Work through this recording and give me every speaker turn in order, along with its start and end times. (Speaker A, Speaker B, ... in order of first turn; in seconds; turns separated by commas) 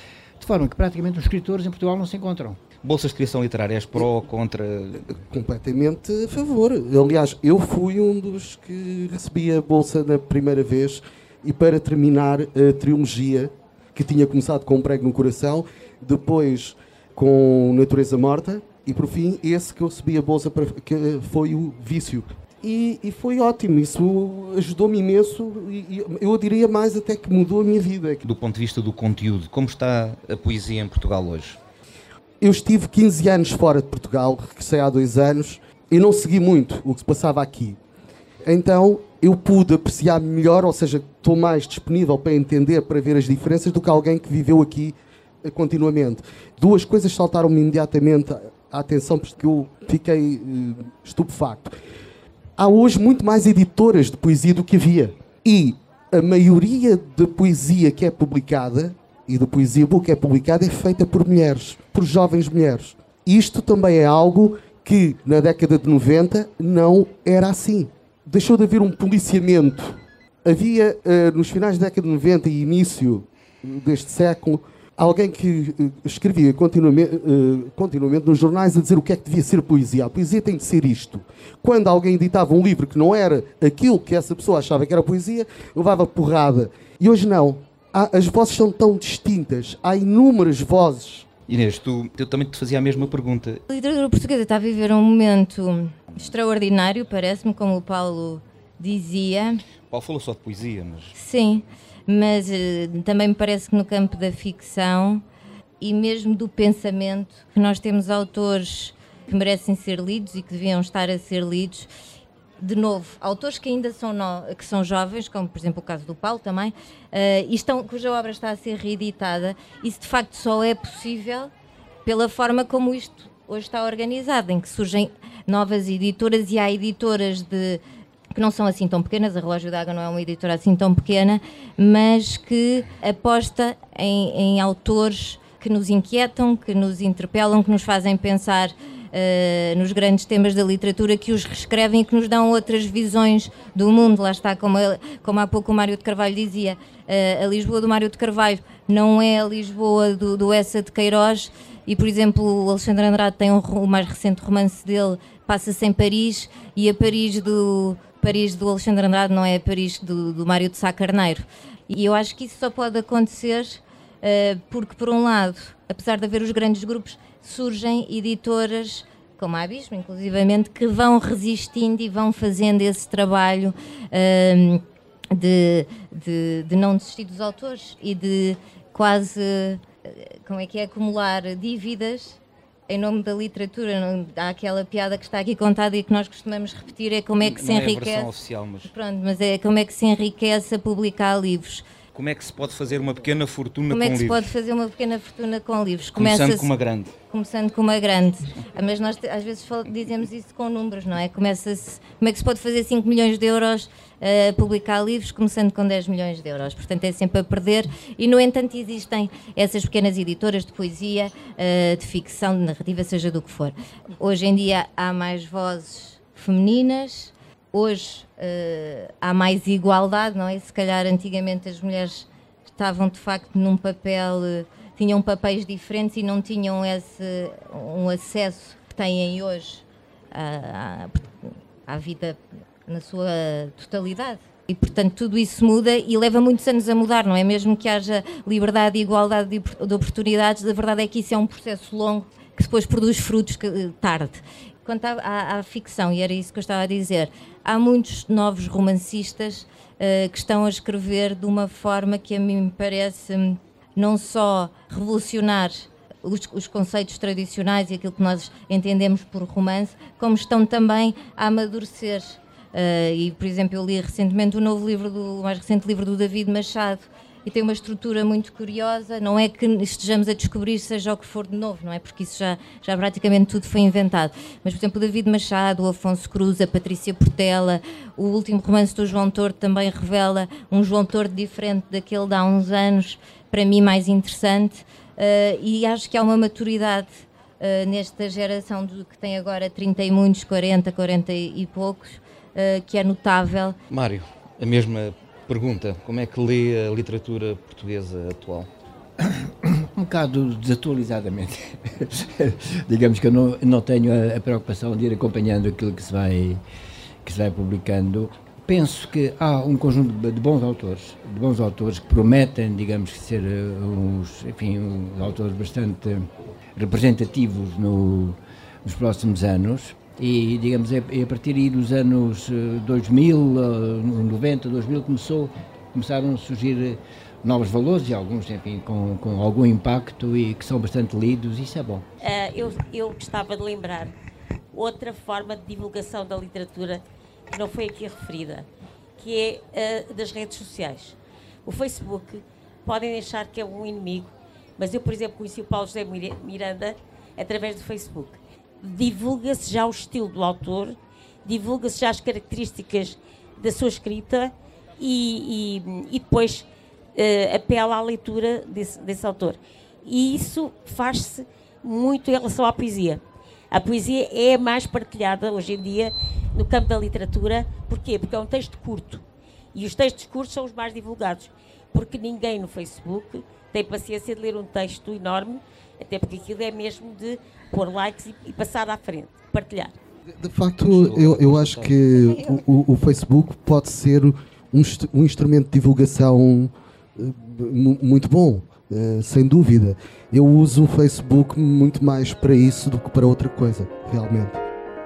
Speaker A: 0.4-2.6, Speaker B: 2.8-5.2, Speaker C: 5.2-28.2, Speaker B: 28.2-31.6, Speaker C: 32.4-37.8, Speaker C: 38.4-51.7, Speaker C: 52.6-91.3, Speaker B: 91.5-93.6, Speaker D: 93.7-99.6, Speaker B: 99.9-101.2, Speaker D: 101.2-105.2, Speaker D: 105.8-111.9, Speaker D: 112.6-121.5, Speaker D: 122.0-127.8, Speaker D: 128.3-188.3, Speaker B: 187.4-188.9, Speaker D: 188.8-191.8, Speaker B: 192.1-194.5, Speaker D: 193.9-196.7, Speaker B: 196.2-197.1, Speaker D: 197.3-231.3, Speaker D: 231.9-293.8, Speaker B: 293.9-298.7, Speaker A: 299.2-306.6, Speaker A: 307.2-332.1, Speaker E: 332.2-334.1, Speaker E: 334.7-338.7, Speaker E: 339.2-379.9, Speaker C: 380.4-394.6, Speaker B: 380.8-382.0